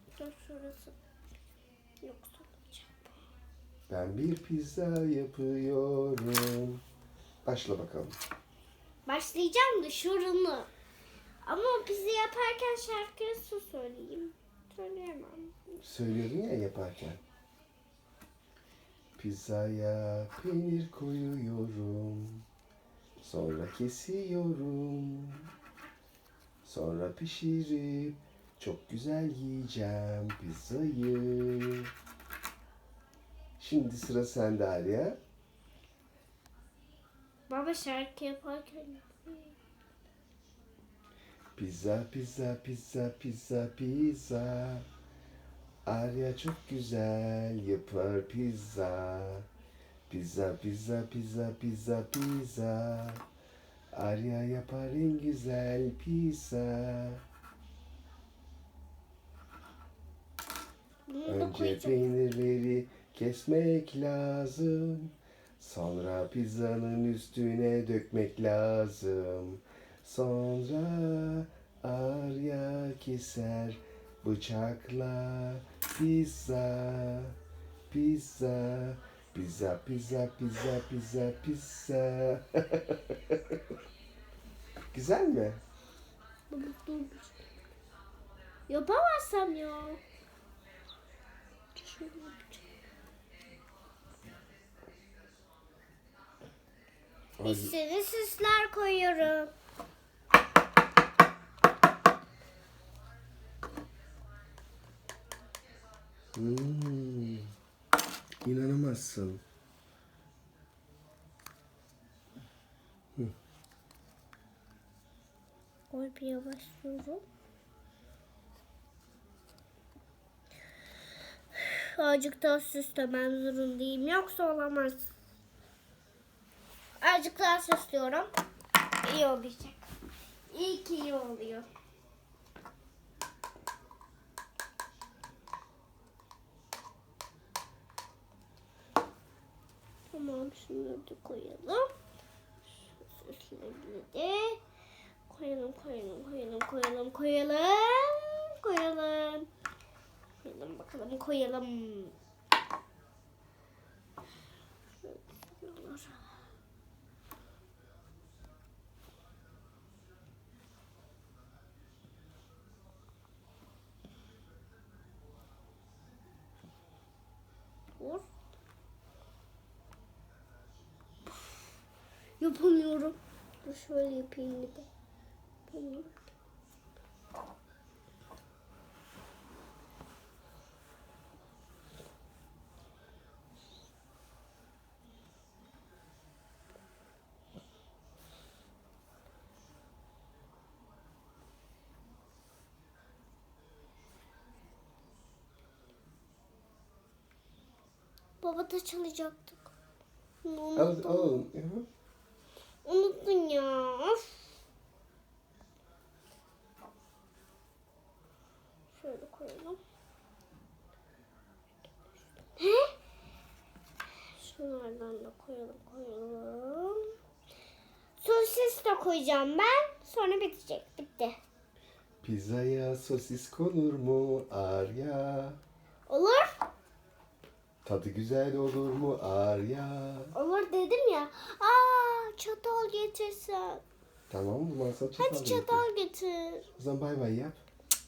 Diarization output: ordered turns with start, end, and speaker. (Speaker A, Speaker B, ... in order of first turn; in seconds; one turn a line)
Speaker A: 0.2-0.9
Speaker A: 2.0-3.1
Speaker B: 3.9-6.8
Speaker B: 7.4-8.1
Speaker A: 9.1-10.7
Speaker A: 11.4-15.7
Speaker B: 15.8-17.2
Speaker B: 19.2-22.4
Speaker B: 23.2-25.5
Speaker B: 26.6-31.9
Speaker B: 33.6-35.2
Speaker A: 37.5-39.5
Speaker B: 41.5-44.9
Speaker B: 45.9-49.5
Speaker B: 50.1-53.2
Speaker B: 53.9-57.2
Speaker A: 61.1-62.0
Speaker B: 61.2-77.3
Speaker B: 77.9-83.5
Speaker B: 84.9-85.6
Speaker A: 86.5-87.3
Speaker A: 88.7-90.0
Speaker A: 91.7-92.6
Speaker B: 97.4-97.7
Speaker A: 97.4-99.5
Speaker B: 106.3-107.5
Speaker B: 108.4-109.4
Speaker A: 115.9-117.2
Speaker A: 121.5-125.1
Speaker A: 127.0-128.3
Speaker A: 129.0-129.9
Speaker A: 130.5-131.7
Speaker A: 140.1-141.9
Speaker A: 143.0-144.6
Speaker A: 145.3-149.5
Speaker A: 150.4-152.1
Speaker A: 155.0-156.3
Speaker A: 168.0-168.3
Speaker A: 172.4-174.9
Speaker A: 175.7-176.2
Speaker A: 198.4-199.7
Speaker A: 200.4-201.4
Speaker B: 200.8-201.8
Speaker A: 202.8-204.4
Speaker A: 208.9-209.8
Speaker A: 212.6-212.9
Speaker A: 214.4-217.1
Speaker A: 218.2-221.4
Speaker B: 222.2-225.6
Speaker A: 226.1-226.5
Speaker B: 227.8-230.3
Speaker A: 230.3-233.8
Speaker B: 234.3-235.8
Speaker A: 235.2-236.7
Speaker B: 236.8-237.6